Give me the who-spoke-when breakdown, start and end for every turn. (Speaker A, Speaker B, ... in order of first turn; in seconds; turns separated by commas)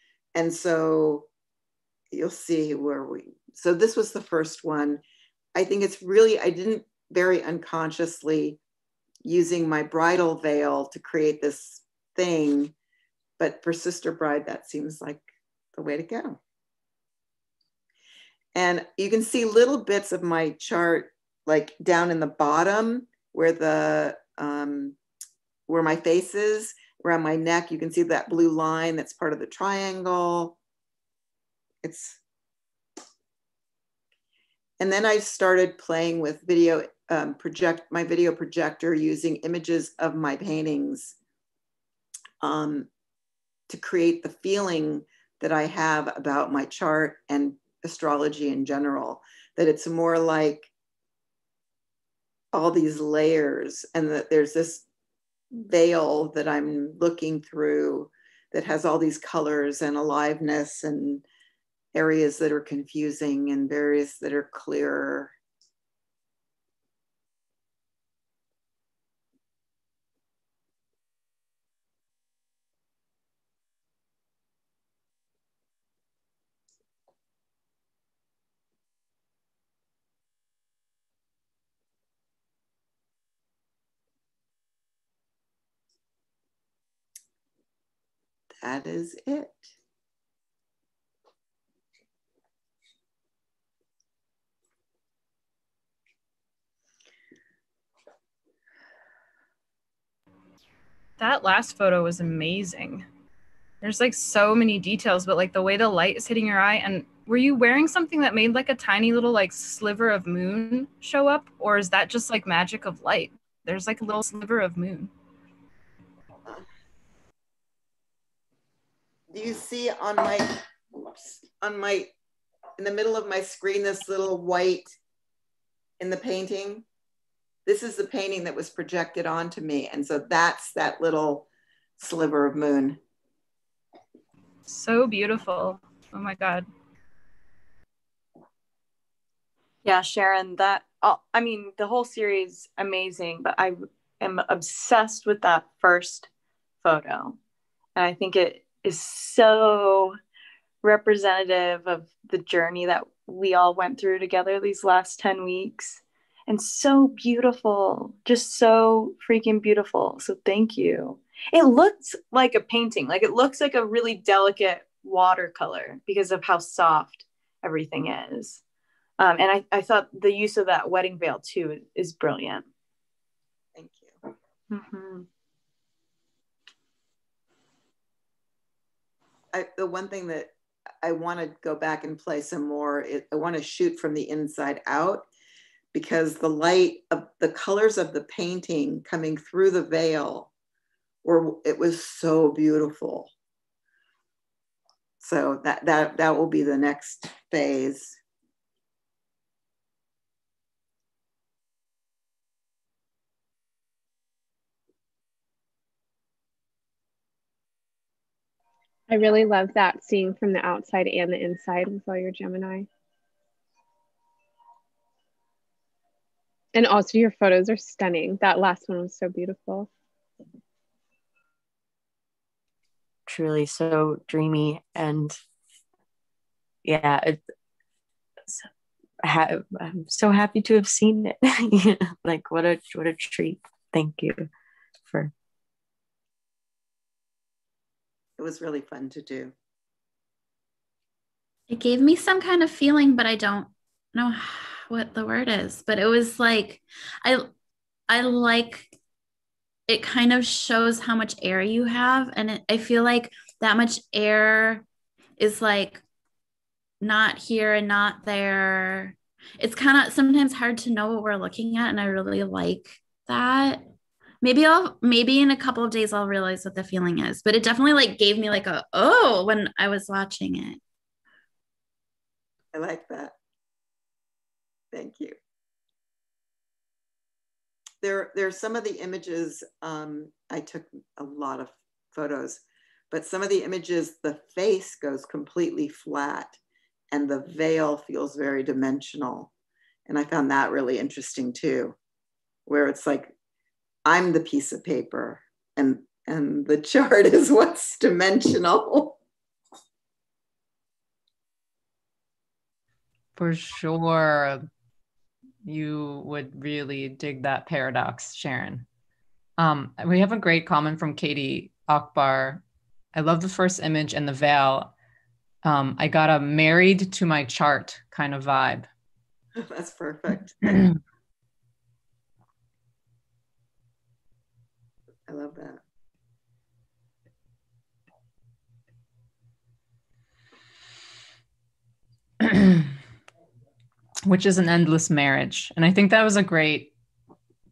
Speaker A: 0.3-1.3, Speaker A: 2.1-5.0, Speaker A: 5.5-8.6, Speaker A: 9.2-12.7, Speaker A: 13.4-16.4, Speaker A: 18.6-25.0, Speaker A: 25.7-30.6, Speaker A: 31.8-32.2, Speaker A: 34.8-41.2, Speaker A: 42.4-42.9, Speaker A: 43.7-50.7, Speaker A: 52.5-54.9, Speaker A: 55.5-61.2, Speaker A: 61.9-65.3, Speaker A: 88.6-89.7, Speaker B: 101.2-103.1, Speaker B: 103.8-115.1, Speaker A: 119.3-122.1, Speaker A: 122.8-125.0, Speaker A: 126.0-126.8, Speaker A: 127.7-131.5, Speaker A: 132.0-133.0, Speaker B: 134.7-136.7, Speaker C: 139.8-146.3, Speaker C: 146.8-147.4, Speaker C: 147.9-150.2, Speaker C: 150.8-168.6, Speaker C: 169.2-172.7, Speaker A: 173.8-174.2, Speaker C: 174.7-175.3, Speaker A: 179.5-185.3, Speaker A: 185.9-190.5, Speaker A: 191.2-193.3, Speaker A: 195.2-198.2, Speaker D: 209.1-212.9, Speaker D: 216.7-219.9, Speaker E: 223.3-225.4, Speaker E: 226.8-227.4, Speaker E: 229.2-234.5, Speaker E: 235.1-235.3, Speaker A: 238.4-239.5, Speaker F: 241.7-247.5, Speaker F: 248.1-248.9, Speaker F: 249.9-254.8, Speaker F: 255.4-256.0, Speaker F: 257.0-263.9, Speaker F: 264.4-270.8, Speaker A: 272.7-273.4, Speaker A: 274.9-275.4, Speaker A: 278.0-286.6, Speaker A: 287.1-289.5, Speaker A: 290.1-291.9, Speaker A: 292.7-293.4, Speaker A: 294.1-299.2, Speaker G: 303.4-304.7, Speaker G: 305.6-308.9, Speaker G: 309.6-314.9, Speaker G: 315.6-318.9, Speaker A: 319.6-320.8, Speaker A: 325.3-325.8, Speaker G: 332.4-332.9, Speaker G: 334.3-336.9